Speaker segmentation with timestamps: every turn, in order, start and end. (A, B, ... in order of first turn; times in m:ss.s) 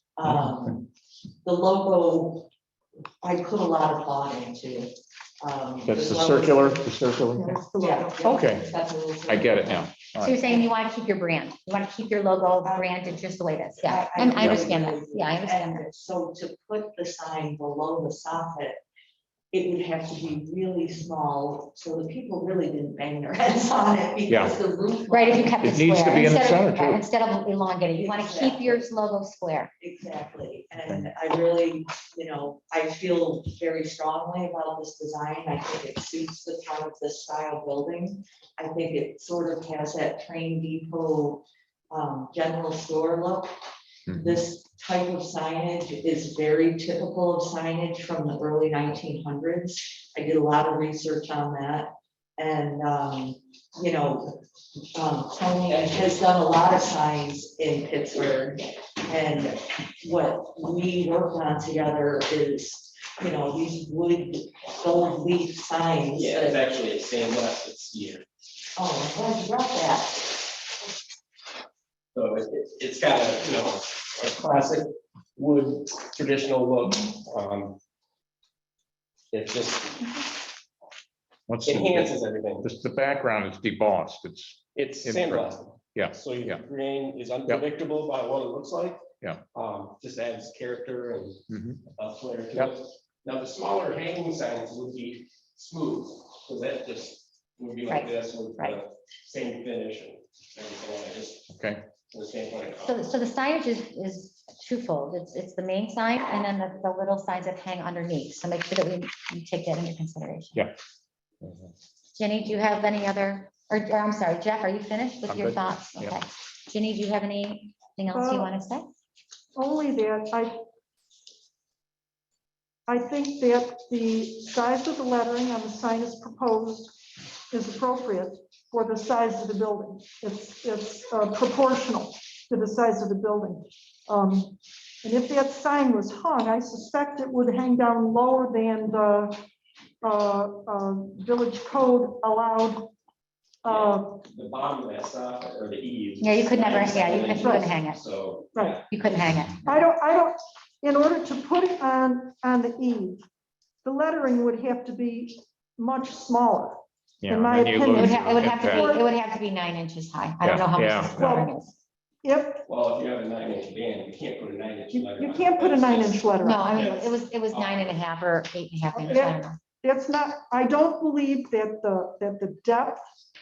0:00.2-0:00.9 A
0:01.4-0:02.5 A
0:03.2-0:06.8 A
0:05.8-0:07.6 B
0:07.3-0:08.5 C
0:07.8-0:10.7 A
0:08.2-0:08.7 B
0:09.2-0:10.4 B
0:10.2-0:15.8 D
0:12.6-0:18.8 A
0:14.3-0:14.6 B
0:19.5-0:26.3 A
0:24.3-0:24.5 B
0:25.1-0:29.7 D
0:25.6-0:27.0 B
0:27.9-0:28.9 A
0:29.8-0:43.5 A
0:30.7-0:31.1 B
0:44.1-0:44.4 B
0:44.1-0:54.4 A
0:54.9-1:06.6 A
1:06.1-1:08.2 E
1:08.8-1:10.4 A
1:12.1-1:17.8 E
1:19.3-1:20.1 E
1:21.5-1:26.6 B
1:21.6-1:22.7 E
1:24.7-1:41.5 E
1:29.2-1:29.4 B
1:31.5-1:31.8 B
1:37.9-1:38.8 D
1:41.5-1:41.8 B
1:42.1-1:43.0 E
1:42.8-1:50.6 D
1:51.4-1:51.7 B
1:52.2-1:58.8 D
1:55.3-1:56.2 B
1:58.1-1:58.5 C
1:59.5-2:00.6 C
2:02.9-2:19.4 C
2:20.0-2:22.9 C
2:23.6-2:24.2 C
2:23.6-2:28.8 E
2:26.2-2:28.0 D
2:27.2-2:27.7 C
2:28.5-2:28.8 C
2:28.9-2:29.6 D
2:29.6-2:33.2 C
2:33.8-2:39.1 C
2:37.2-2:38.9 B
2:37.9-2:41.7 D
2:40.4-2:41.2 B
2:41.1-2:41.6 C
2:42.2-2:42.6 C
2:42.7-2:46.2 E
2:44.9-2:47.2 C
2:46.4-2:49.6 D
2:47.5-2:48.0 E
2:48.9-2:53.0 C